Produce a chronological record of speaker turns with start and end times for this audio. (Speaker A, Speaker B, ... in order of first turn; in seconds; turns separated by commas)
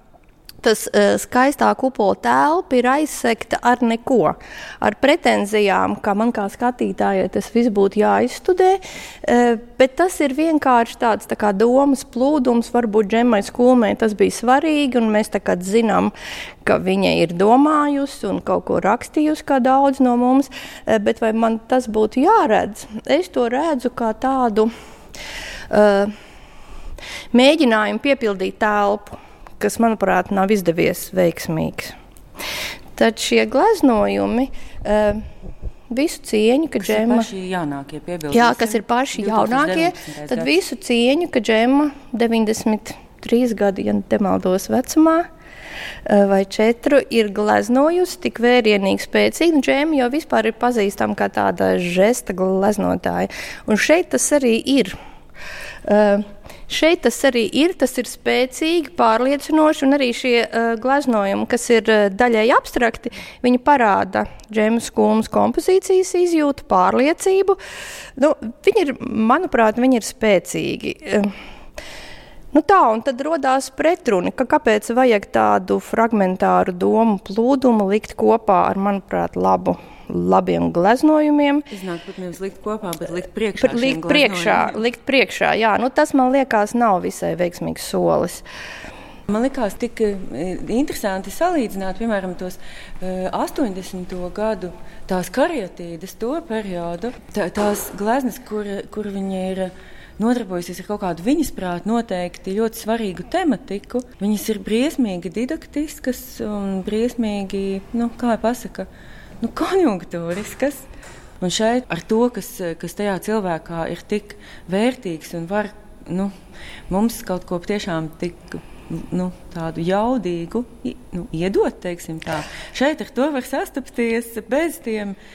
Speaker A: 0.6-16.1, Speaker A: 16.6-24.7, Speaker A: 25.7-26.1, Speaker A: 27.3-31.9, Speaker A: 33.0-35.2, Speaker A: 35.9-37.2, Speaker B: 36.8-40.6, Speaker A: 38.3-45.2, Speaker A: 46.1-54.9, Speaker A: 55.9-67.6, Speaker A: 68.2-71.3, Speaker A: 72.5-81.7, Speaker B: 81.7-84.8, Speaker A: 83.6-88.4, Speaker B: 89.3-108.9, Speaker B: 109.4-110.9, Speaker B: 111.4-116.3, Speaker B: 116.9-125.2